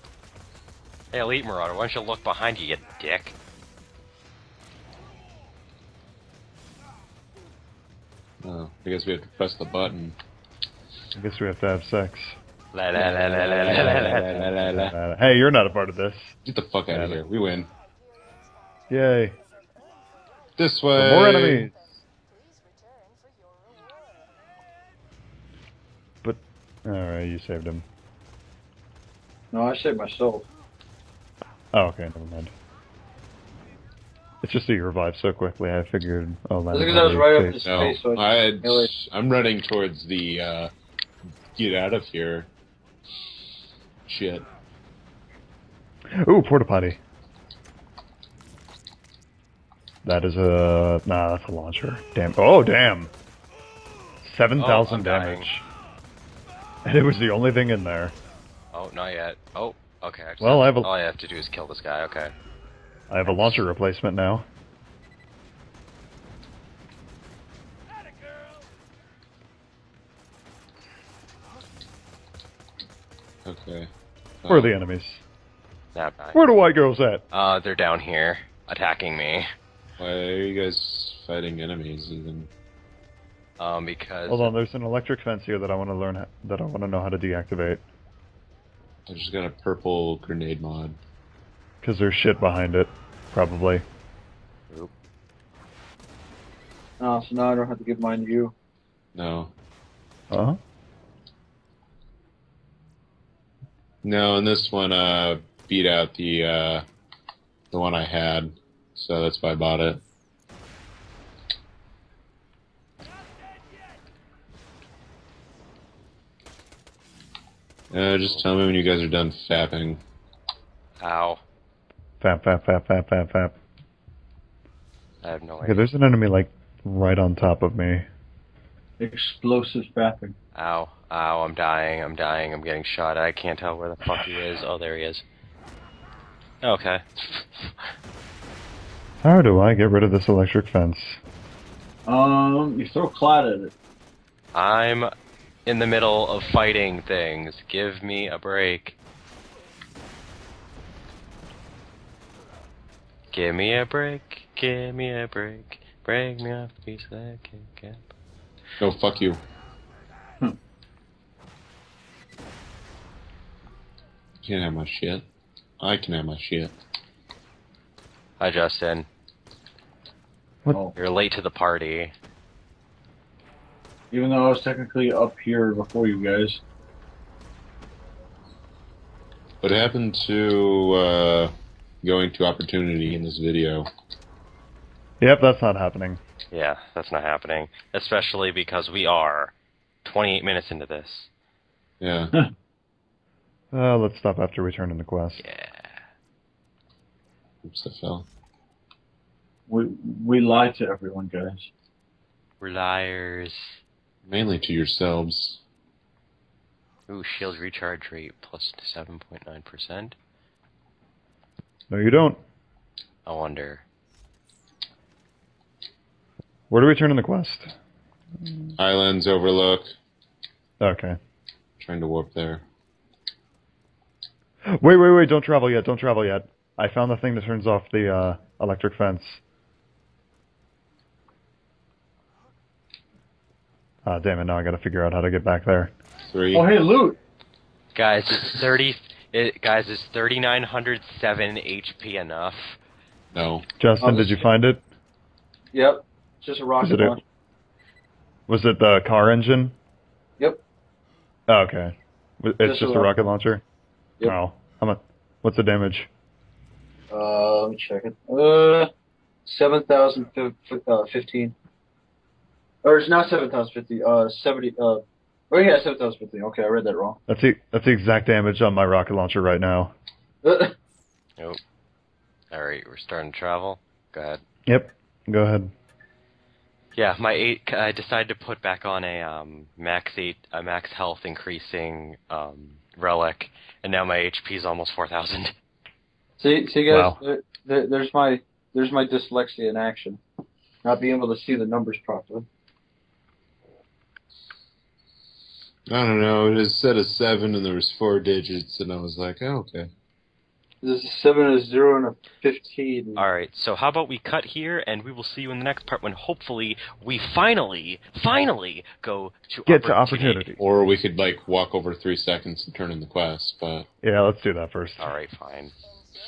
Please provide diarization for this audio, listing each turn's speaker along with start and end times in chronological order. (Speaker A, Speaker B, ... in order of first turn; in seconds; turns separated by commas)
Speaker A: 1.1-3.4, Speaker B: 8.4-10.2, Speaker C: 11.1-12.4, Speaker A: 12.7-14.5, Speaker B: 13.0-14.9, Speaker C: 13.5-16.4, Speaker B: 16.4-17.7, Speaker C: 16.9-17.2, Speaker C: 18.9-19.4, Speaker B: 20.6-21.7, Speaker C: 21.0-21.8, Speaker C: 26.2-27.8, Speaker D: 29.5-30.4, Speaker C: 31.7-32.5, Speaker C: 34.4-37.9, Speaker D: 36.7-38.9, Speaker B: 37.6-40.7, Speaker B: 41.6-42.5, Speaker B: 44.1-44.5, Speaker C: 46.1-47.0, Speaker C: 50.0-53.1, Speaker C: 54.2-55.6, Speaker A: 54.6-55.5, Speaker C: 56.9-58.1, Speaker A: 58.7-62.3, Speaker C: 60.4-60.9, Speaker C: 63.1-64.5, Speaker B: 73.5-73.9, Speaker B: 74.4-74.7, Speaker C: 74.5-75.2, Speaker A: 76.0-76.4, Speaker C: 76.3-77.2, Speaker A: 77.3-79.5, Speaker B: 80.0-82.5, Speaker A: 83.6-84.5, Speaker C: 84.3-87.8, Speaker B: 89.1-91.0, Speaker C: 91.8-93.8, Speaker D: 97.0-98.5, Speaker B: 99.2-99.5, Speaker C: 100.3-100.6, Speaker B: 104.0-106.8, Speaker B: 107.7-110.0, Speaker B: 117.9-120.0, Speaker A: 121.0-121.4, Speaker C: 122.2-123.6, Speaker A: 125.2-125.9, Speaker C: 125.6-128.1, Speaker D: 129.0-130.3, Speaker A: 130.6-135.2, Speaker A: 136.6-137.8, Speaker C: 139.2-141.2, Speaker D: 142.1-143.7, Speaker A: 144.5-145.1, Speaker A: 145.7-149.0, Speaker A: 153.3-158.1, Speaker B: 158.8-159.4, Speaker B: 164.4-165.2, Speaker B: 165.8-166.8, Speaker A: 168.4-169.1, Speaker A: 170.9-172.1, Speaker D: 174.1-176.6, Speaker B: 179.6-183.9, Speaker C: 185.2-186.2, Speaker A: 186.5-189.5, Speaker A: 190.0-191.3, Speaker B: 192.0-192.3, Speaker C: 193.7-195.4, Speaker A: 195.4-196.0, Speaker B: 197.6-198.3, Speaker D: 199.7-201.7, Speaker A: 202.6-203.8, Speaker B: 204.3-205.6, Speaker A: 207.1-210.2, Speaker C: 211.9-212.4, Speaker A: 213.3-213.8, Speaker C: 216.7-217.7, Speaker B: 218.8-219.9, Speaker C: 220.8-221.2, Speaker B: 221.8-222.6, Speaker C: 224.7-229.4, Speaker C: 234.1-235.9, Speaker B: 236.2-236.7, Speaker D: 236.5-237.2, Speaker A: 237.9-242.8, Speaker B: 243.3-243.7, Speaker C: 243.8-244.8, Speaker D: 244.0-244.4, Speaker D: 245.7-247.2, Speaker C: 246.8-247.2, Speaker C: 248.5-249.8, Speaker C: 251.5-253.6, Speaker D: 252.6-253.1, Speaker C: 254.2-256.1, Speaker D: 257.1-258.9, Speaker D: 259.5-261.6, Speaker D: 262.8-267.2, Speaker C: 267.3-269.9, Speaker D: 270.4-270.8, Speaker A: 272.5-274.4, Speaker C: 274.7-275.7, Speaker A: 276.9-285.5, Speaker D: 286.4-290.2, Speaker C: 286.9-287.2, Speaker D: 290.8-292.5, Speaker B: 295.9-299.9, Speaker D: 300.8-303.2, Speaker A: 303.2-310.5, Speaker C: 309.7-310.6, Speaker B: 310.6-313.9, Speaker C: 314.0-315.1, Speaker A: 315.0-315.7